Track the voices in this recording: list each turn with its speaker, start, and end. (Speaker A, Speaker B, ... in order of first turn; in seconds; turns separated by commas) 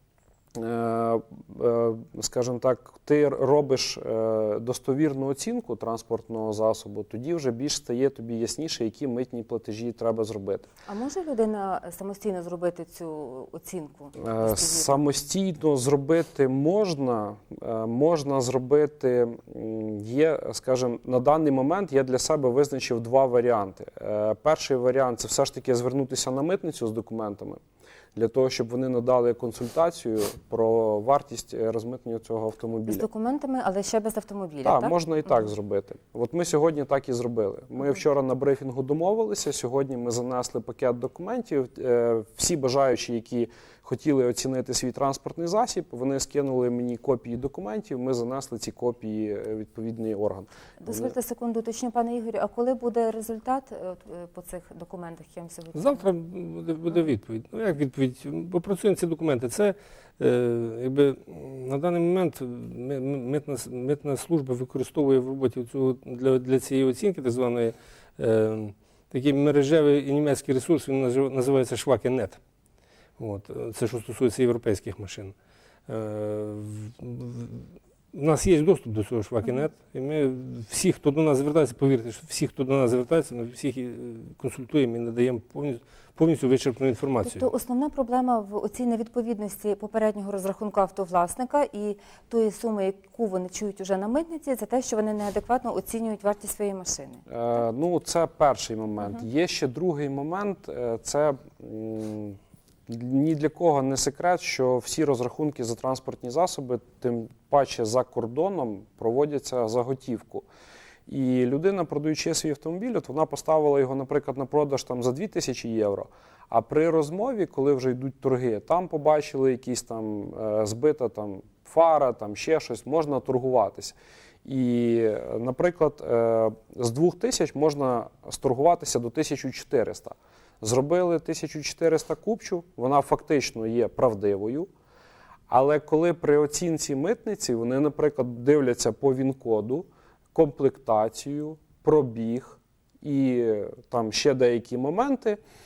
Speaker A: 0.5-10.7, Speaker B: 10.8-15.0, Speaker A: 14.2-27.6, Speaker A: 28.1-33.0, Speaker B: 32.9-35.0, Speaker A: 34.6-51.1, Speaker B: 50.8-56.0, Speaker C: 55.7-72.4, Speaker C: 73.2-75.3, Speaker C: 75.9-87.5, Speaker B: 87.2-97.2, Speaker A: 97.3-110.5, Speaker A: 111.1-134.7, Speaker A: 135.5-145.4